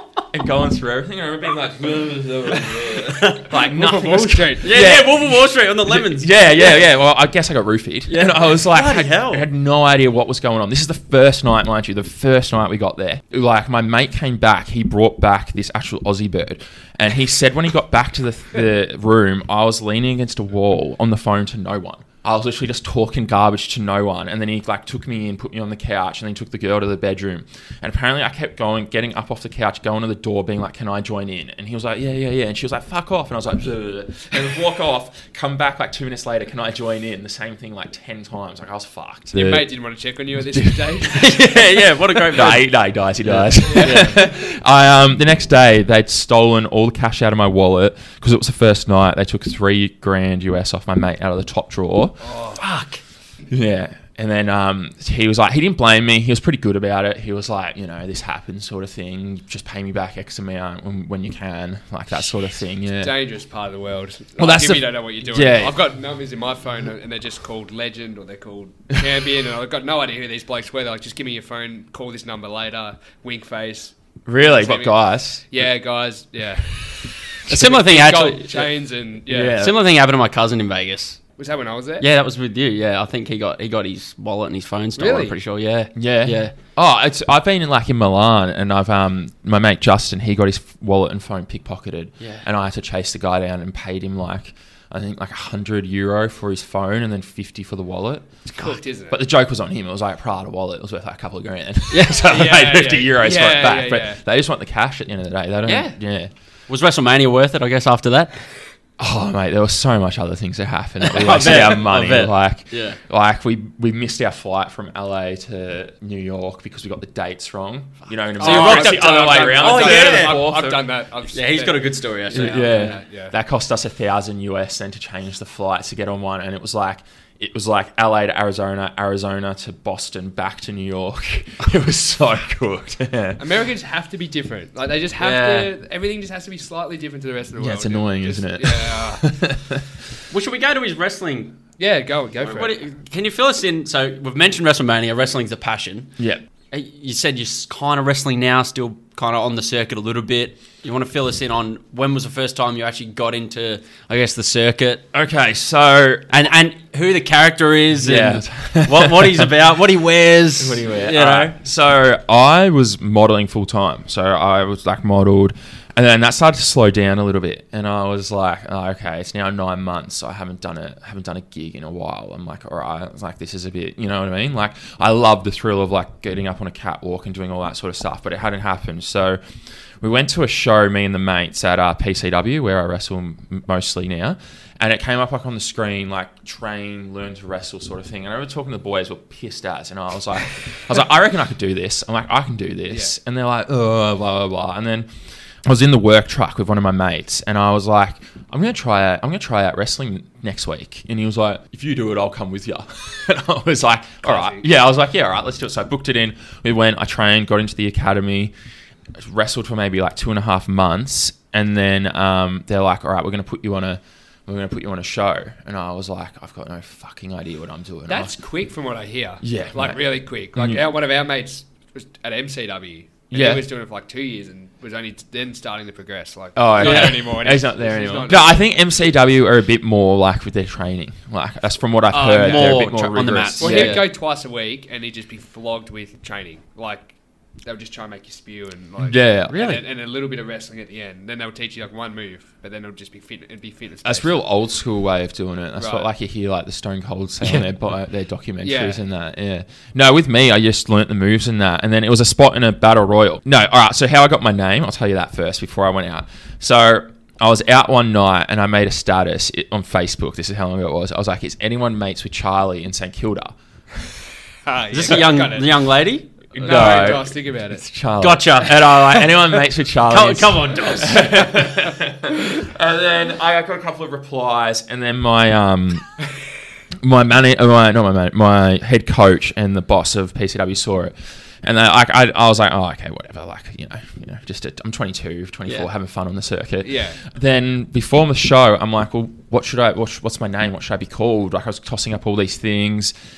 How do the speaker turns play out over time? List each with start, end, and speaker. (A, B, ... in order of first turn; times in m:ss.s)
0:00.3-0:39.7 A
0:03.1-0:03.4 B
0:03.5-0:04.9 C
0:04.6-0:06.9 B
0:08.1-0:09.5 B
0:39.3-0:41.5 C
0:40.4-0:41.0 A
0:41.1-0:42.7 B
0:42.3-0:52.2 A
0:43.2-0:44.2 B
0:43.6-0:44.0 C
0:52.2-0:52.6 C
0:52.6-0:53.0 B
0:53.5-1:03.1 A
1:03.0-1:15.0 C
1:04.4-1:05.8 A
1:14.3-1:15.7 A
1:15.5-1:16.9 C
1:17.4-1:19.6 C
1:17.5-1:18.7 B
1:19.3-1:19.8 A
1:19.4-1:21.2 B
1:21.4-1:22.0 C
1:22.0-1:26.5 B
1:25.0-1:25.4 C
1:26.0-1:38.3 A
1:38.6-1:39.2 C
1:39.1-1:46.3 A
1:41.9-1:42.3 B
1:42.2-1:44.2 C
1:45.6-1:46.0 B
1:46.7-1:48.3 B
1:49.0-2:00.8 A
1:51.0-1:53.0 B
1:58.4-2:00.6 B
1:58.4-2:03.3 C
2:01.3-2:03.0 B
2:02.3-2:13.4 A
2:13.4-2:19.3 C
2:15.2-2:15.7 B
2:17.6-2:19.9 A
2:20.3-2:21.6 B
2:21.8-2:22.7 C
2:22.4-2:26.1 B
2:26.2-2:26.4 A
2:26.7-2:35.0 B
2:35.1-2:36.3 A
2:36.3-2:41.6 B
2:38.0-2:39.5 A
2:40.6-2:59.4 A
3:00.0-3:15.1 A
3:12.9-3:13.2 C
3:15.6-3:28.5 A
3:24.2-3:24.7 C
3:29.2-3:38.4 A
3:38.1-3:48.7 C
3:39.4-3:40.0 A
3:40.6-3:40.8 A
3:43.3-3:43.7 A
3:46.6-3:54.0 A
3:46.8-3:47.2 B
3:52.1-3:52.9 C
3:52.3-3:54.1 B
3:53.6-3:57.1 C
3:57.6-4:04.3 C
3:59.0-3:59.6 A
3:59.5-3:59.8 B
4:04.0-4:23.6 A
4:05.8-4:06.1 C
4:08.6-4:09.0 C
4:24.7-4:25.9 C
4:24.9-4:27.2 B
4:26.5-4:36.1 A
4:26.6-4:27.8 C
4:28.2-4:31.7 B
4:37.0-4:53.1 A
4:46.8-4:47.2 C